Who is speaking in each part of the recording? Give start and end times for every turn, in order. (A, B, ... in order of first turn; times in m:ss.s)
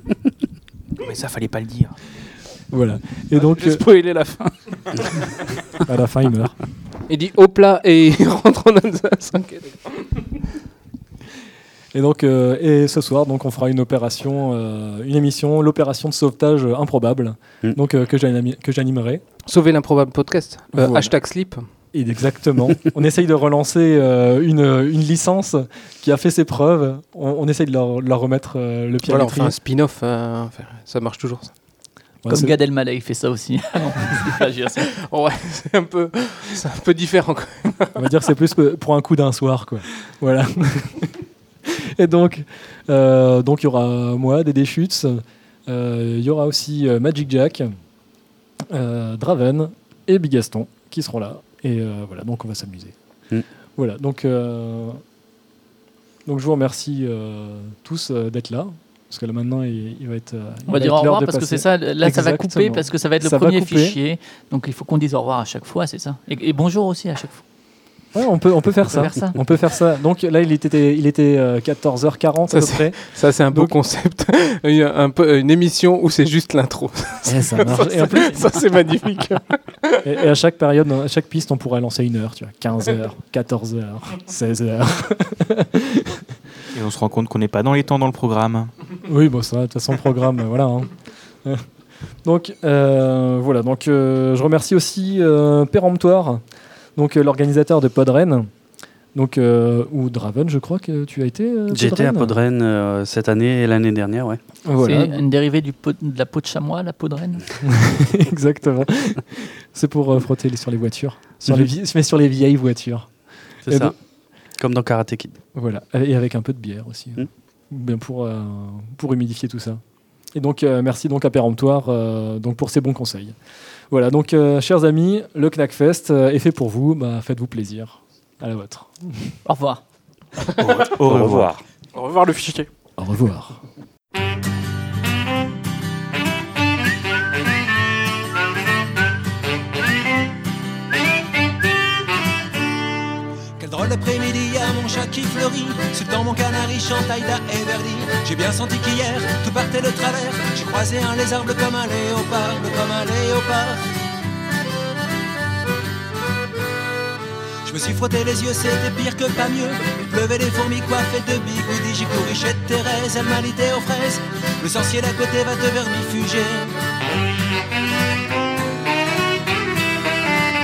0:01.0-0:02.0 A
0:02.7-0:03.8 B
0:03.3-0:05.6 C
0:05.8-0:06.6 B
0:07.1-0:10.4 D
0:11.9-0:19.2 B
0:19.4-0:21.6 D
0:20.7-0:21.1 B
0:21.9-0:29.6 B
0:29.0-0:31.5 D
0:32.2-0:32.5 B
0:32.3-0:34.8 E
0:34.7-0:38.0 D
0:38.0-0:41.1 B
0:41.7-0:47.7 B
0:48.7-0:52.9 B
0:53.8-0:55.0 B
0:56.2-1:04.0 B
1:00.7-1:07.4 E
1:08.1-1:13.8 B
1:08.9-1:09.4 E
1:12.5-1:20.0 D
1:17.2-1:18.4 B
1:17.8-1:18.4 E
1:20.0-1:26.2 B
1:26.7-1:28.7 A
1:29.0-1:30.9 B
1:32.2-1:36.4 B
1:37.0-1:38.5 B
1:39.1-1:42.4 B
1:41.7-1:44.4 F
1:44.6-1:45.2 B
1:44.8-1:47.4 E
1:47.6-1:53.1 B
1:53.6-1:54.0 F
1:53.7-1:53.9 B
1:54.6-1:55.3 F
1:55.5-1:59.8 B
2:00.3-2:03.3 B
2:03.9-2:09.4 B
2:09.4-2:09.8 E
2:10.6-2:11.6 A
2:11.9-2:12.7 C
2:13.0-2:13.6 B
2:23.6-2:33.8 G
2:37.6-2:46.8 G